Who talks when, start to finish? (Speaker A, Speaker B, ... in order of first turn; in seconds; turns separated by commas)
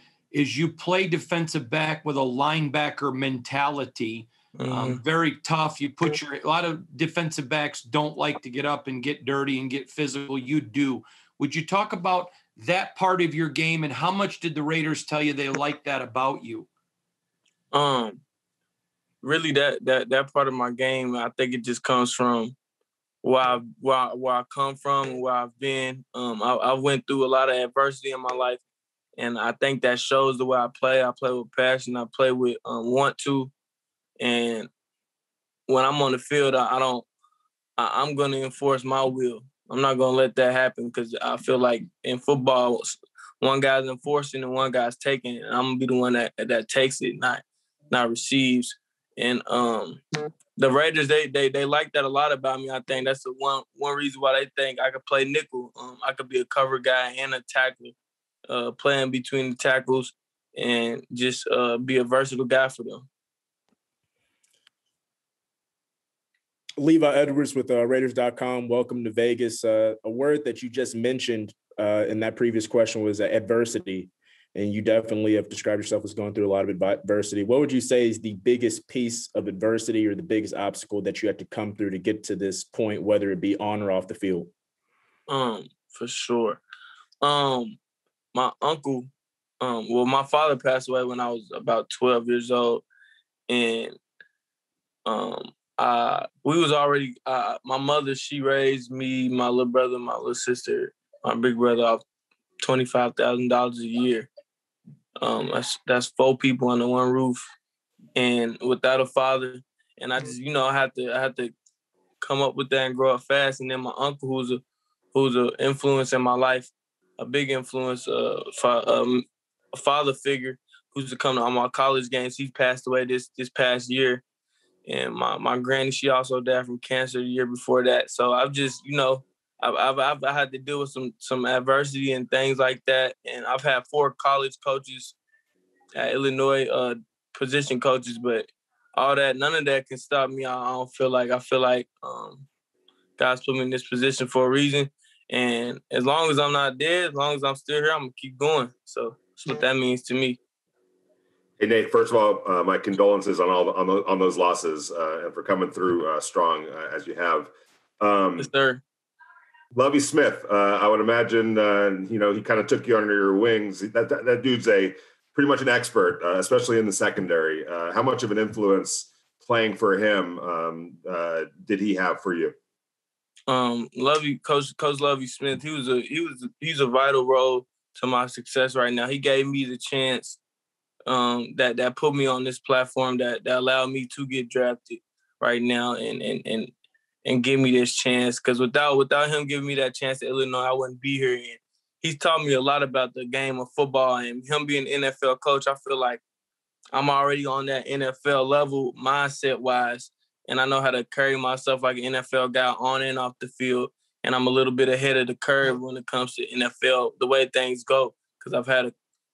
Speaker A: 0.3-16.7, Speaker B: 4.6-5.0, Speaker B: 17.7-18.2, Speaker B: 19.2-22.6, Speaker B: 23.2-28.6, Speaker B: 29.2-33.5, Speaker B: 34.2-34.7, Speaker B: 35.7-37.1, Speaker B: 37.8-50.0, Speaker B: 50.6-58.0, Speaker B: 58.5-63.1, Speaker C: 66.8-84.5, Speaker B: 85.3-86.6, Speaker B: 87.2-87.8, Speaker B: 88.3-92.8, Speaker B: 93.5-94.0, Speaker B: 95.0-102.0, Speaker B: 102.6-104.3, Speaker B: 105.2-107.4, Speaker B: 108.2-111.5, Speaker B: 112.2-114.6, Speaker B: 115.1-124.2, Speaker B: 124.9-135.2, Speaker B: 135.9-142.5, Speaker B: 143.2-150.4, Speaker D: 151.6-158.5, Speaker B: 158.4-158.8, Speaker D: 159.8-172.6, Speaker B: 173.5-180.4, Speaker B: 181.1-186.7, Speaker B: 187.2-196.2, Speaker B: 196.9-208.9